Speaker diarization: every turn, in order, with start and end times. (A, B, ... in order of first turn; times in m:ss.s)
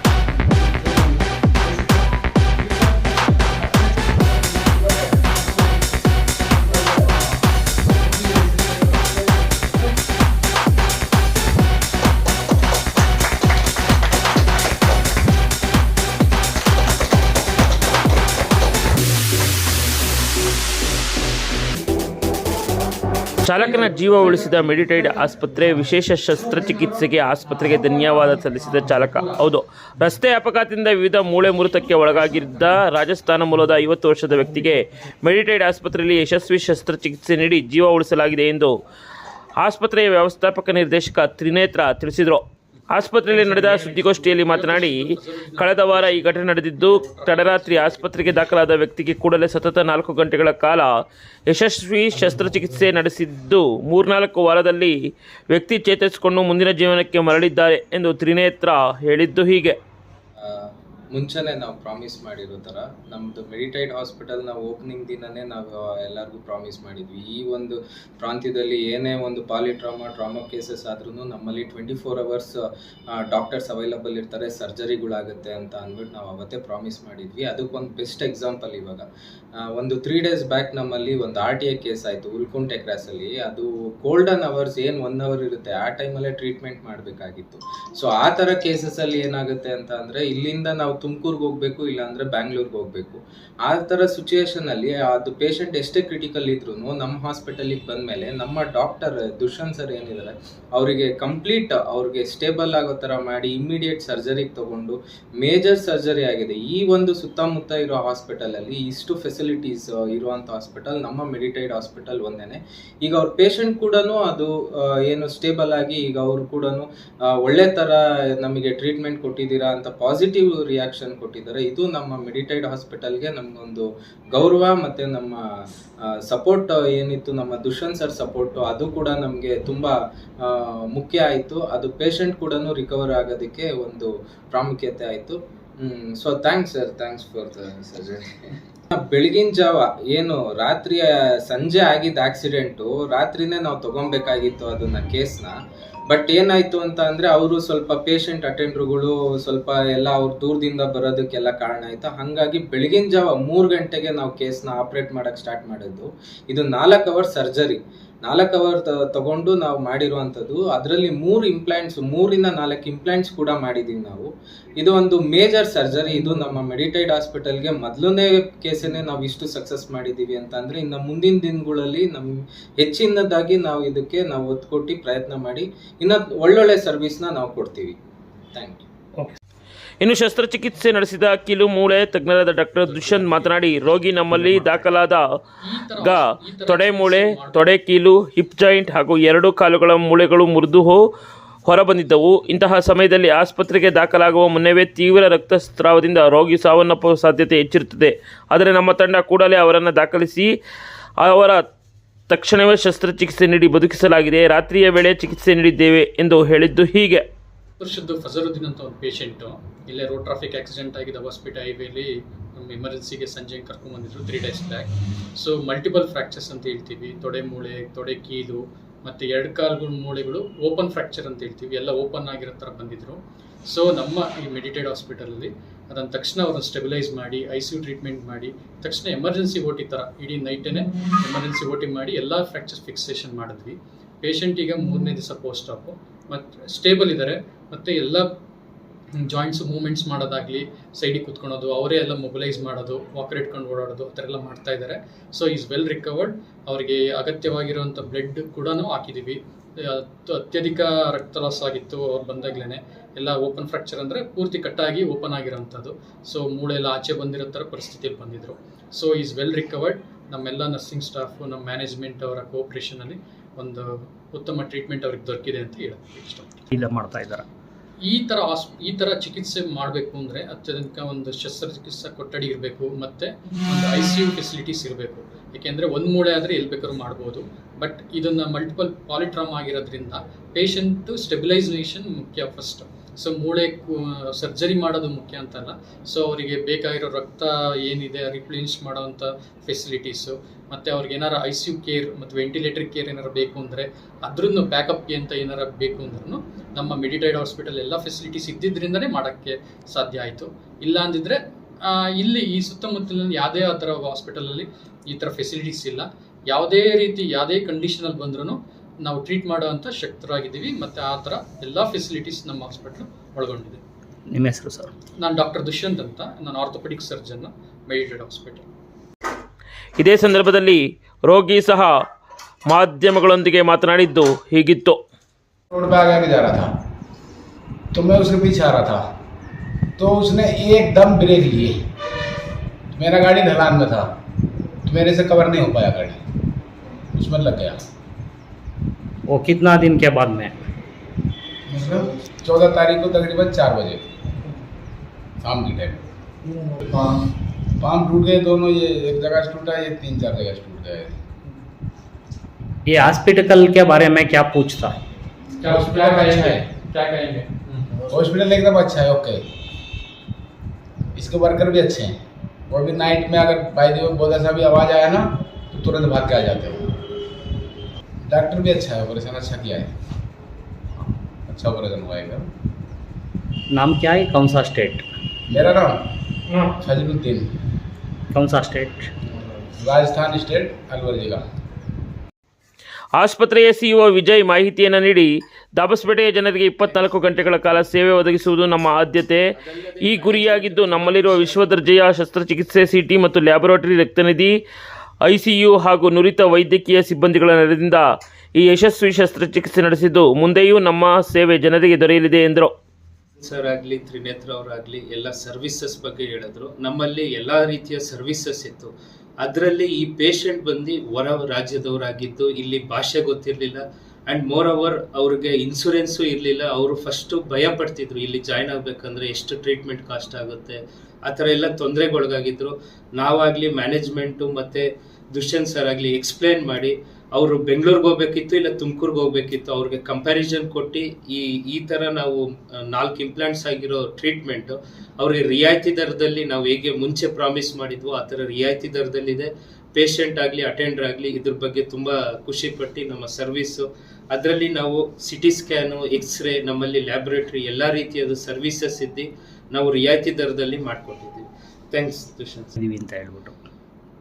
0:00.4-0:05.9 A
0:06.5-0:10.0 A
0:23.4-0:38.8 B
0:39.6-0:50.9 B
0:43.3-0:48.4 A
0:51.5-0:55.0 B
0:55.5-0:59.8 B
1:00.4-2:05.4 C
2:06.0-2:25.6 C
2:26.1-2:58.0 C
2:58.5-2:58.8 C
3:00.0-3:05.2 B
3:02.8-3:04.9 A
3:05.6-3:07.7 A
3:06.0-3:11.0 B
3:11.6-3:20.5 B
3:21.2-3:21.6 B
3:22.3-3:27.2 B
3:27.8-3:58.4 A
3:59.2-4:26.7 A
4:26.7-4:27.4 D
4:28.0-5:13.8 A
5:14.3-5:14.9 D
5:15.2-5:18.7 A
5:20.0-5:21.9 B
5:22.7-5:25.0 B
5:25.7-5:26.7 E
5:27.9-5:29.0 E
5:30.0-5:31.8 E
5:32.9-5:34.1 E
5:34.8-5:36.2 E
5:37.1-5:37.8 E
5:39.3-5:40.5 D
5:41.7-5:44.0 E
5:45.4-5:46.0 E
5:47.8-5:51.2 E
5:52.9-5:55.0 D
5:55.6-5:58.0 A
5:55.6-5:56.6 E
5:58.1-5:59.4 E
6:01.1-6:07.0 E
6:08.2-6:09.9 E
6:11.5-6:12.5 E
6:13.7-6:15.0 D
6:15.5-6:16.0 E
6:16.6-6:17.5 E
6:18.3-6:19.1 D
6:19.3-6:21.4 E
6:23.1-6:34.6 B
6:29.5-6:31.9 F
6:35.2-6:38.0 B
6:38.6-6:42.7 B
6:43.4-7:32.8 F
7:32.8-7:33.5 D